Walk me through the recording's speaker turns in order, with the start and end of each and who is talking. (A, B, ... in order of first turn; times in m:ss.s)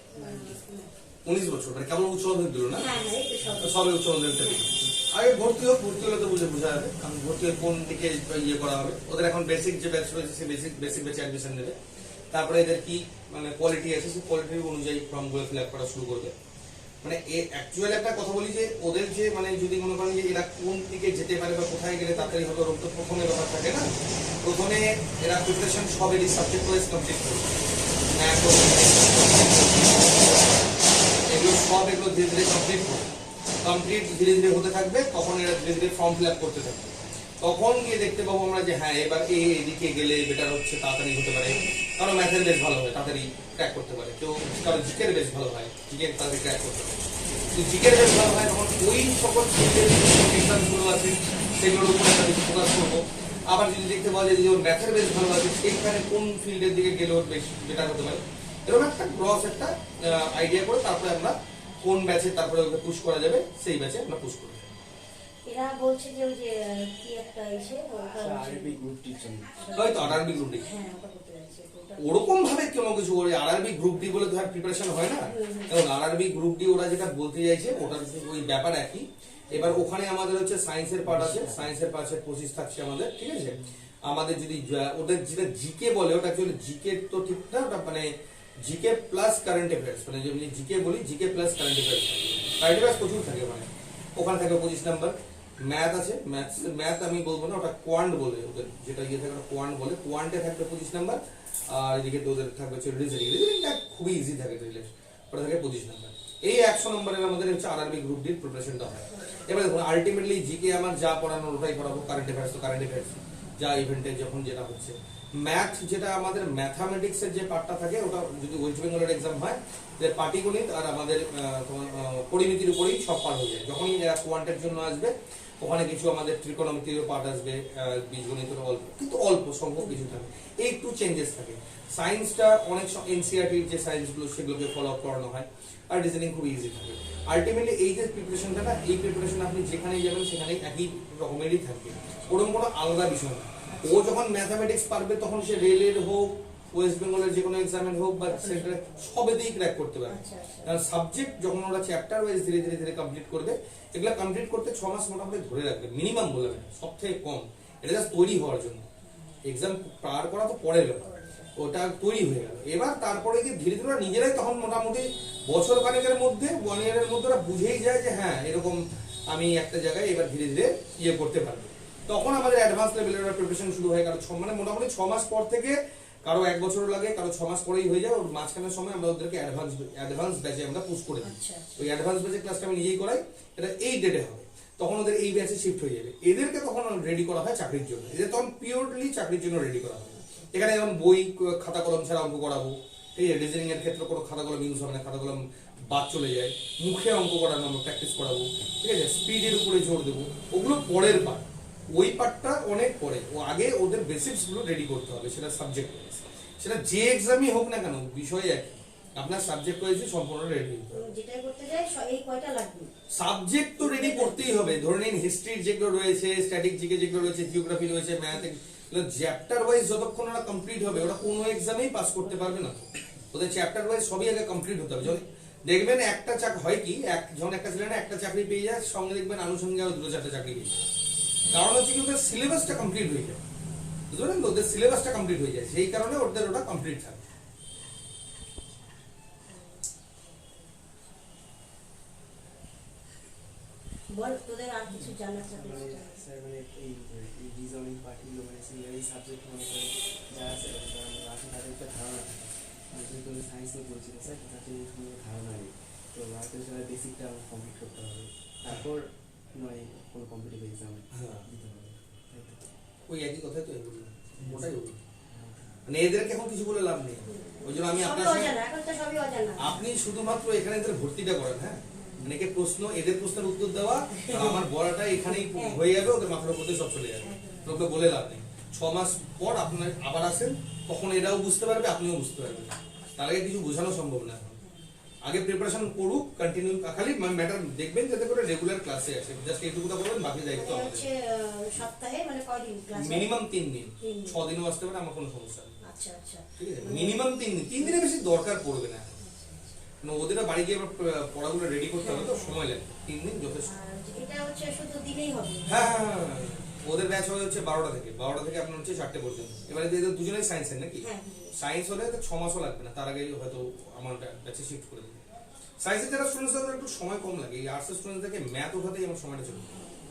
0:00.1-0:00.6 A
0:00.1-0:00.9 B
0:01.2-0:03.0 C
0:02.7-0:04.6 B
0:03.6-0:11.8 C
0:12.3-0:16.3 C
0:17.0-0:23.9 C
0:24.4-0:27.6 C
0:28.1-0:33.1 C
0:33.6-1:04.7 C
1:05.4-1:08.8 B
1:08.2-1:10.2 A
1:09.6-1:12.4 B
1:09.7-1:10.7 C
1:12.0-1:28.1 C
1:15.2-1:15.7 B
1:19.5-1:19.8 A
1:21.0-1:21.7 A
1:23.4-1:23.8 A
1:28.6-2:38.9 C
1:49.1-1:49.5 B
2:23.7-2:24.0 B
2:28.3-2:29.0 B
2:30.1-2:30.8 B
2:39.5-2:48.8 C
2:41.0-2:41.5 B
2:49.3-3:31.1 C
3:01.2-3:01.7 B
3:10.1-3:10.5 B
3:30.9-3:32.9 B
3:33.1-3:50.8 C
3:33.8-3:34.4 B
3:51.5-3:53.4 C
3:54.1-3:57.2 C
3:59.5-3:59.8 B
4:04.1-4:06.2 B
4:04.9-4:22.7 A
4:21.1-4:21.5 C
4:23.1-4:25.0 C
4:24.4-4:25.8 A
4:25.9-4:28.5 C
4:27.2-4:29.8 B
4:29.6-4:44.6 C
4:31.9-4:32.2 B
4:34.1-4:34.6 B
4:35.3-4:35.8 B
4:37.2-4:37.8 B
4:44.6-4:44.9 B
4:45.2-4:51.0 C
4:50.5-4:53.3 B
4:53.0-4:55.8 C
4:54.0-4:54.4 B
4:55.8-4:57.2 B
4:56.6-4:59.2 C
4:59.2-4:59.8 B
5:00.0-5:03.7 C
5:02.0-5:02.6 B
5:03.6-5:06.0 B
5:05.7-5:11.0 C
5:11.0-5:11.6 B
5:11.6-5:15.2 C
5:15.8-5:19.7 C